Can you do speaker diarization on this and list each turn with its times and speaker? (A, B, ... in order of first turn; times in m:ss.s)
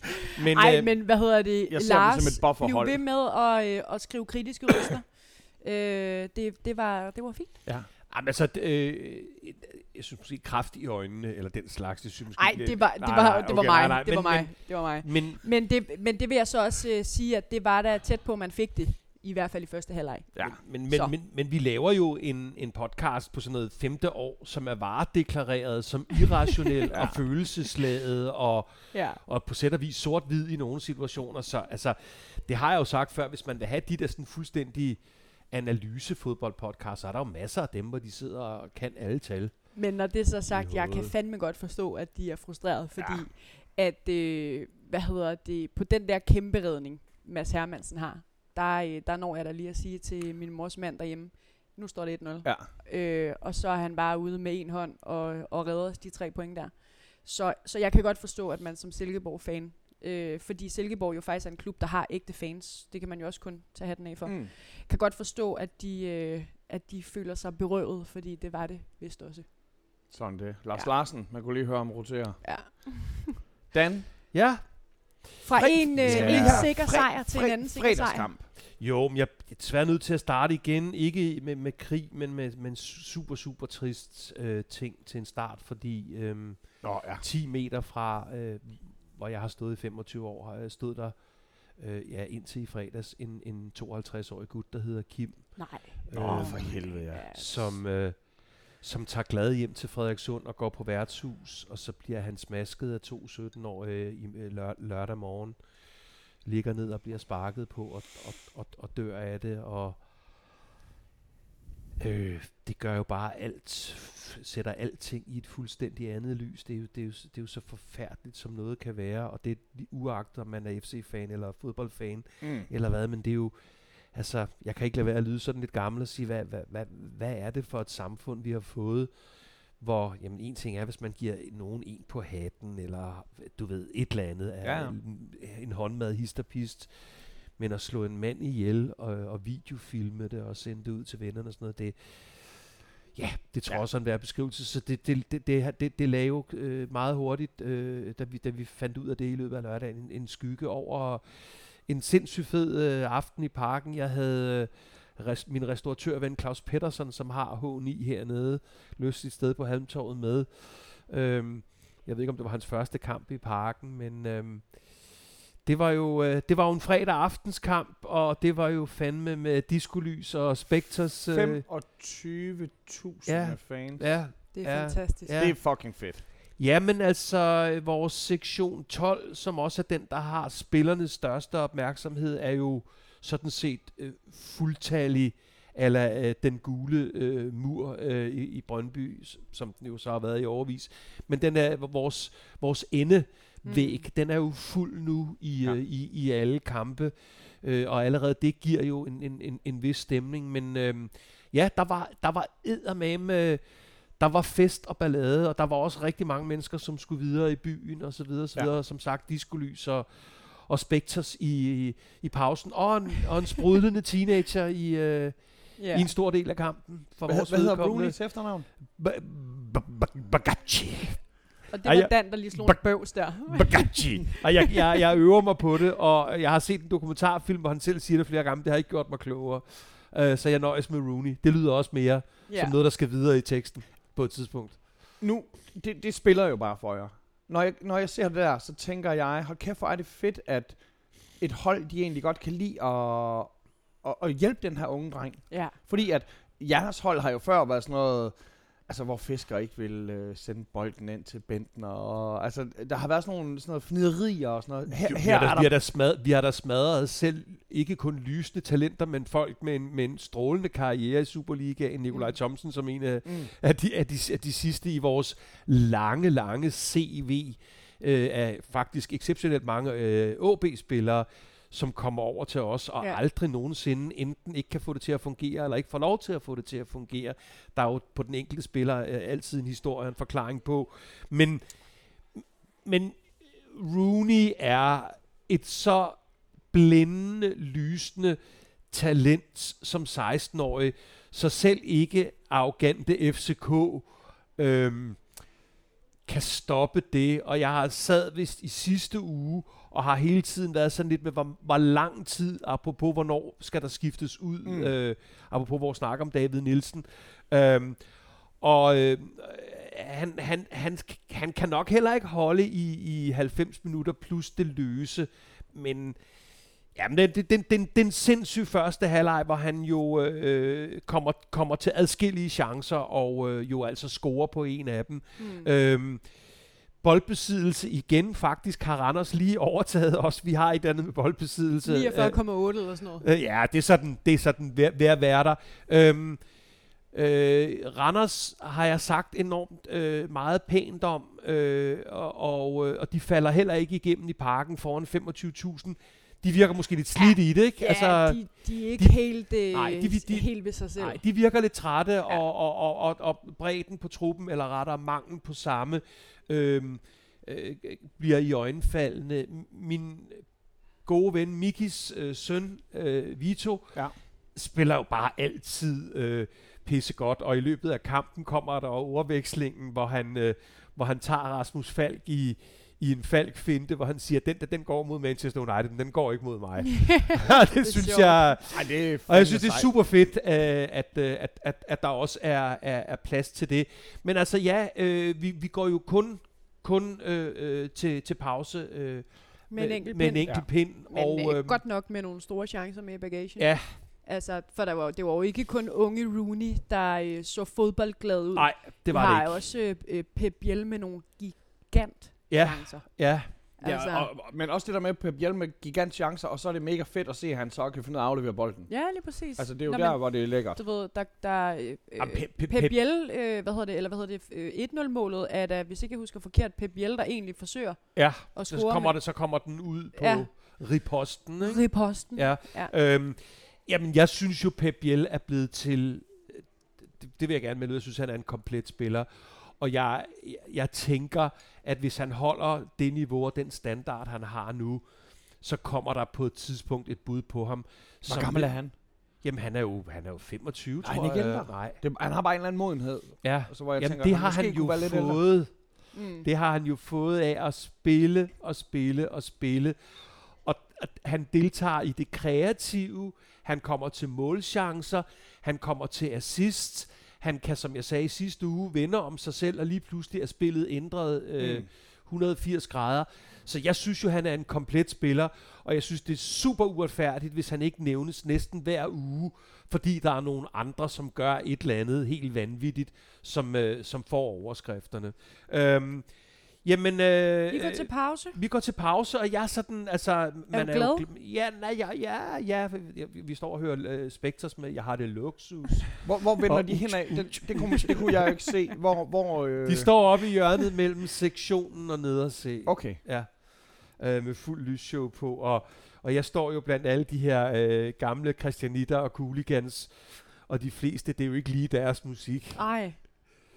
0:00.3-0:01.0 A
0:00.5-0:07.6 B
0:01.7-0:03.0 C
0:08.1-0:15.4 A
0:12.4-0:21.1 B
0:20.4-0:39.9 A
0:26.9-0:27.4 C
0:28.9-0:29.2 B
0:39.7-1:09.4 B
0:40.5-0:41.1 A
0:43.0-0:43.2 C
0:52.4-0:52.7 C
1:04.2-1:04.5 C
1:10.1-1:12.5 C
1:12.4-1:13.4 B
1:13.7-1:14.1 C
1:14.3-1:16.7 A
1:15.4-1:18.3 B
1:15.6-1:18.5 C
1:18.6-1:50.1 A
1:26.8-1:27.2 C
1:35.6-1:37.8 B
1:36.1-1:37.3 C
1:52.0-2:51.6 A
2:02.4-2:02.7 C
2:14.6-2:15.0 C
2:51.3-2:54.2 C
2:53.2-3:54.9 A
2:54.5-2:55.4 B
2:55.3-2:56.2 C
3:13.6-3:14.1 B
3:35.8-3:36.1 B
3:37.2-3:38.7 C
3:41.7-3:44.7 B
3:52.5-3:52.8 B
3:55.2-4:15.7 C
4:05.5-4:05.8 B
4:14.9-4:41.7 A
4:23.2-4:23.5 C
4:42.3-4:48.4 A
4:48.9-4:55.5 A
4:56.2-6:31.8 A
5:04.6-5:05.0 C
5:25.4-5:25.7 B
5:31.8-5:33.2 B
5:47.2-5:51.2 B
6:17.0-6:18.5 B
6:18.7-6:20.0 C
6:29.7-6:44.3 B
6:30.4-6:30.7 C
6:33.6-6:34.0 A
6:38.5-6:39.7 A
6:42.5-6:43.6 A
6:43.8-6:50.8 C
6:48.9-6:59.4 B
6:52.2-6:52.9 A
6:58.1-7:22.0 A
7:00.1-7:00.8 B
7:01.6-7:02.9 B
7:18.2-7:18.9 C
7:21.0-7:25.6 C
7:23.4-8:08.7 A
7:26.1-7:26.4 B
7:41.6-7:41.9 C
7:57.7-7:58.6 B
8:00.7-8:01.3 B
8:06.2-8:10.2 C
8:09.8-8:23.5 A
8:12.8-8:13.2 C
8:22.7-8:23.2 B